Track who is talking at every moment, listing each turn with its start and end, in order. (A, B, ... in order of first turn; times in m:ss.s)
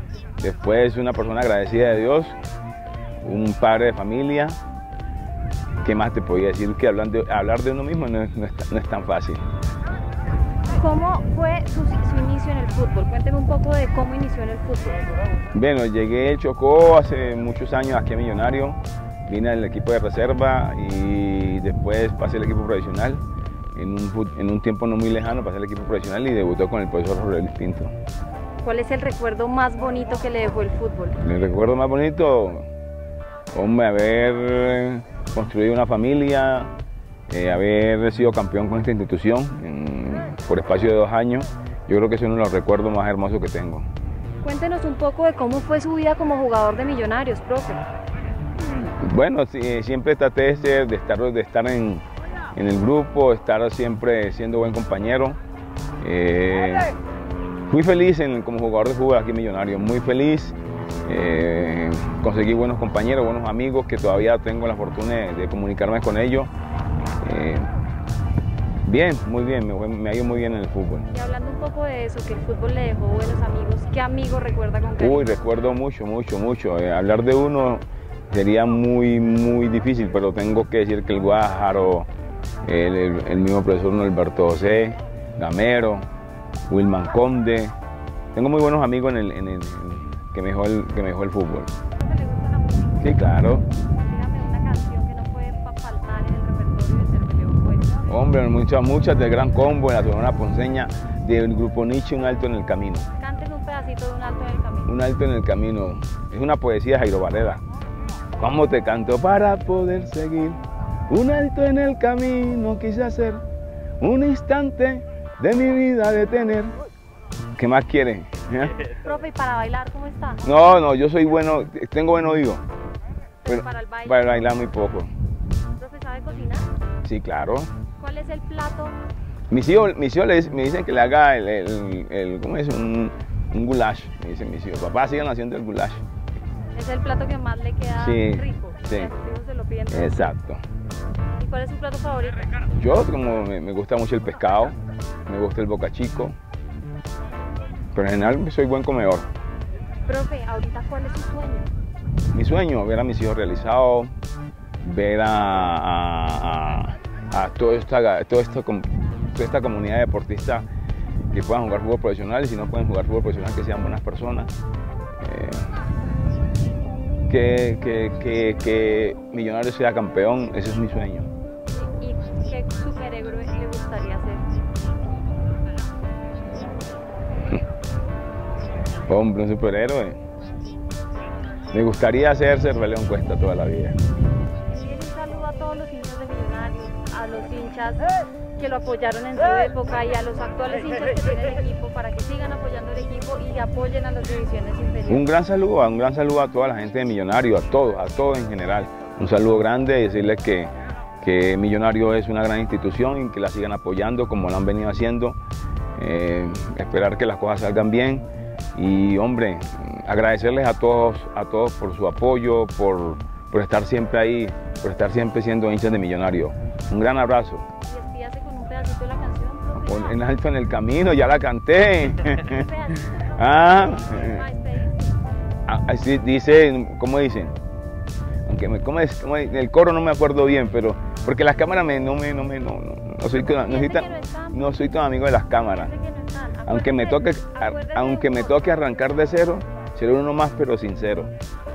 0:00.4-0:02.4 A
0:03.2-0:04.6 A
0:05.8-0:09.4 A
0:10.7-0:15.0 B
0:15.5-0:23.2 A
0:23.7-0:27.9 A
0:28.6-0:31.2 B
0:31.2-0:32.7 A
0:33.5-0:36.7 A
0:37.3-0:43.9 A
0:44.4-0:47.9 B
0:49.0-0:55.4 A
0:56.0-0:56.9 A
0:57.7-1:06.5 A
1:07.2-1:07.7 A
1:08.9-1:11.1 A
1:11.1-1:15.4 B
1:15.0-1:22.1 A
1:22.6-1:26.1 A
1:26.7-1:27.7 A
1:28.3-1:31.7 A
1:32.0-1:33.4 B
1:33.0-1:33.6 A
1:33.9-1:38.0 B
1:38.1-1:43.1 A
1:43.2-1:44.9 B
1:44.9-1:47.6 A
1:48.4-1:53.4 A
1:54.0-1:56.7 A
1:57.6-1:58.9 A
1:58.9-2:00.4 B
2:00.4-2:02.6 A
2:03.4-2:04.6 B
2:03.5-2:05.1 A
2:05.7-2:06.7 B
2:07.0-2:07.7 A
2:08.0-2:09.0 B
2:09.5-2:16.0 A
2:16.8-2:20.3 B
2:18.0-2:19.1 A
2:19.9-2:20.6 A
2:21.4-2:22.5 B
2:22.8-2:24.8 A
2:25.3-2:26.4 A
2:28.0-2:29.3 A
2:30.1-2:31.7 B
2:32.3-2:34.1 A
2:34.8-2:40.7 A
2:41.3-2:44.5 A
2:45.2-2:45.7 A
2:47.3-2:51.3 A
2:51.8-2:54.4 B
2:59.1-3:00.2 A
3:01.7-3:04.0 A
3:04.7-3:15.3 B
3:15.1-3:25.4 A
3:26.0-3:37.7 A
3:37.8-3:40.2 B
3:39.8-3:44.4 A
3:42.4-3:45.2 B
3:45.7-3:47.6 A
3:48.4-3:55.9 A
3:53.6-3:55.0 B
3:55.6-3:59.1 B
3:56.7-4:01.3 A